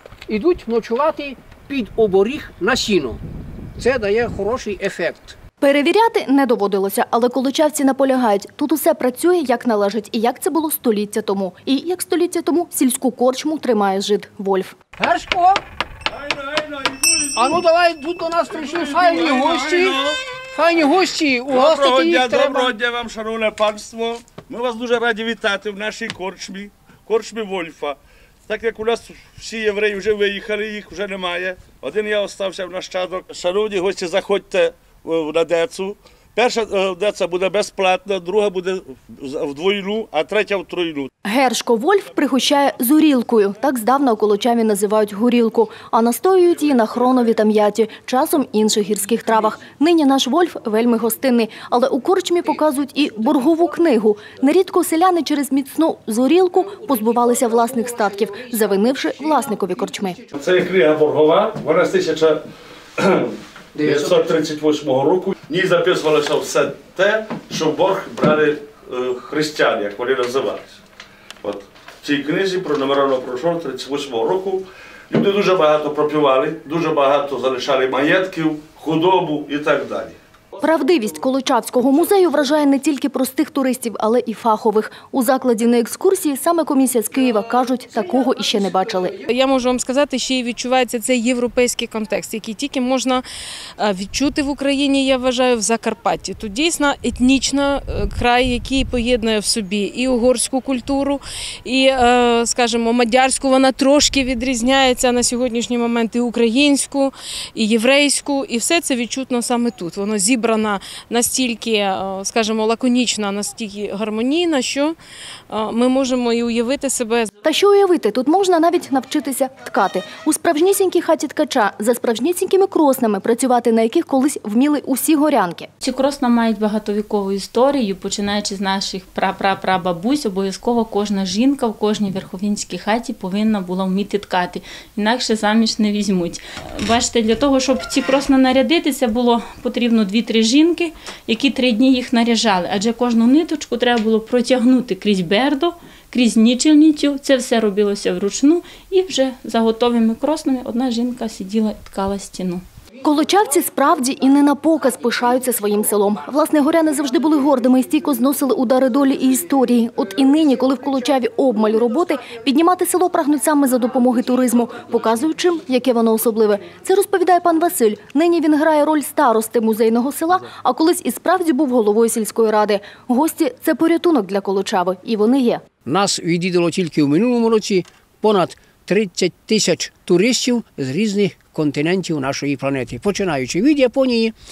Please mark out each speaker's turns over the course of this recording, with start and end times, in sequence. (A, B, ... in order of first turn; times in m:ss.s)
0:00.3-0:03.2 A
0:03.8-0:05.4 A
0:05.6-0:14.8 B
0:15.0-0:15.6 A
0:16.1-0:17.6 C
0:17.3-0:22.8 A
0:18.5-0:20.2 C
0:21.5-0:41.1 C
0:41.2-1:00.2 B
1:00.4-1:02.4 C
1:03.0-1:03.3 C
1:03.8-1:04.3 A
1:03.8-1:10.8 C
1:11.4-1:20.2 C
1:20.6-1:29.2 B
1:29.3-1:33.2 D
1:33.8-1:55.0 D
1:55.5-1:57.3 D
1:57.4-2:05.7 B
2:05.8-2:32.6 E
2:33.0-2:55.6 B
2:55.8-3:04.3 A